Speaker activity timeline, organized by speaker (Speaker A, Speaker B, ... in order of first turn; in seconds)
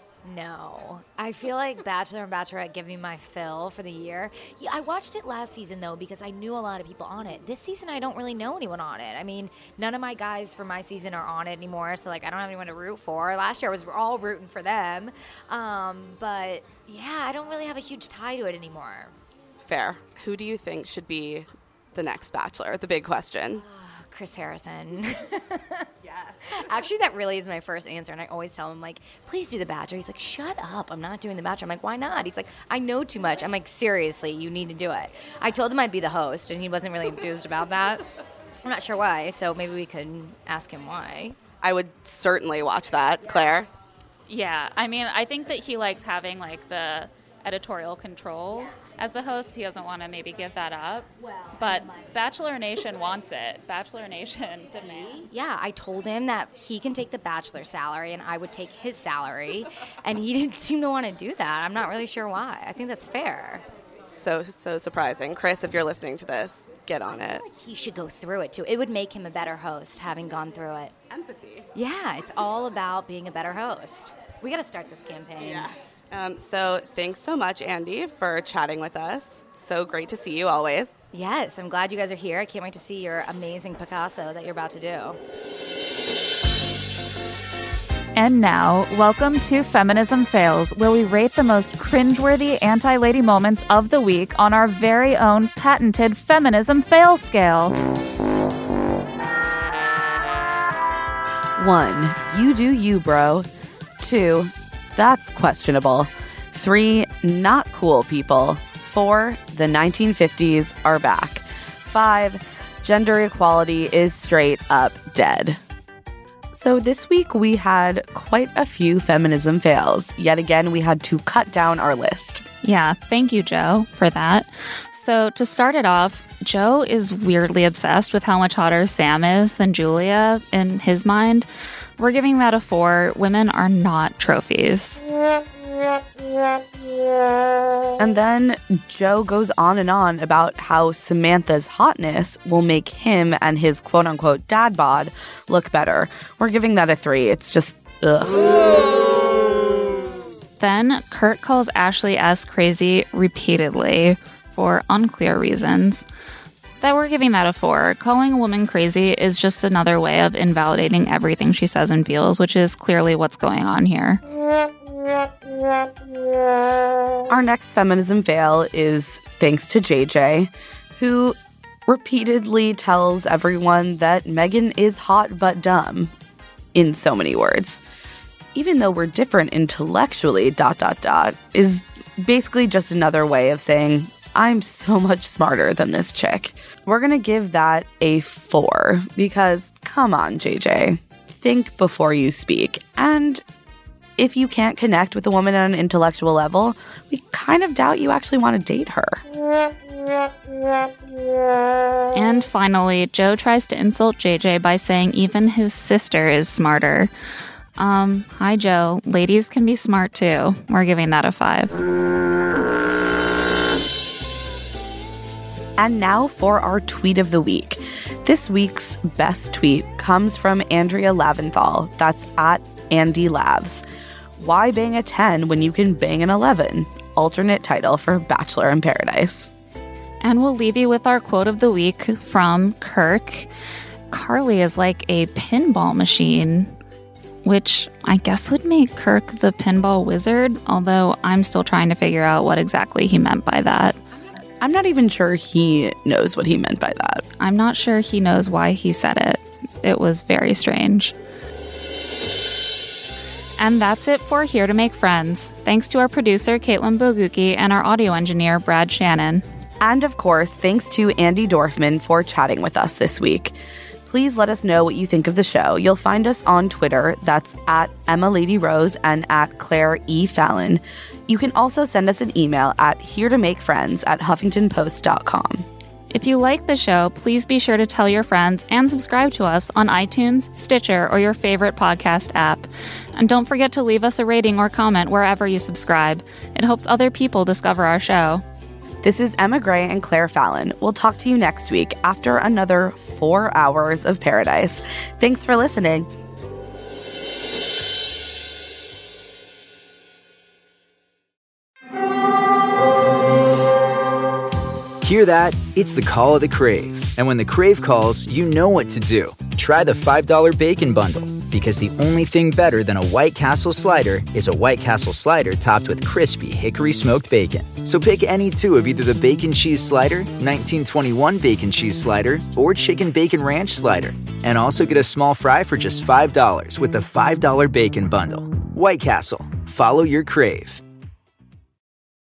Speaker A: 0.2-19.1, 23.6-25.9, 26.5-38.0, 38.6-41.4, 54.8-63.6, 67.2-71.0, 71.8-75.7, 81.1-85.2
Speaker B: 19.6-23.6, 41.6-43.7, 64.1-67.4, 71.1-71.7, 75.4-80.9
Speaker C: 44.3-55.3, 88.2-97.8, 122.6-131.5, 132.0-135.0, 150.6-156.1, 156.8-164.2, 202.2-207.1, 207.8-211.7, 230.2-233.5, 234.1-236.7, 237.4-244.0, 247.4-251.1, 253.6-259.4, 276.1-288.4
Speaker D: 101.6-103.5, 104.0-115.6, 116.5-122.5, 138.0-148.8, 167.3-176.1, 176.7-177.8, 178.5-193.4, 194.2-199.2, 215.8-223.8, 224.4-229.5, 244.6-247.2, 259.8-263.6, 264.1-275.7, 289.0-296.1
Speaker E: 305.0-330.8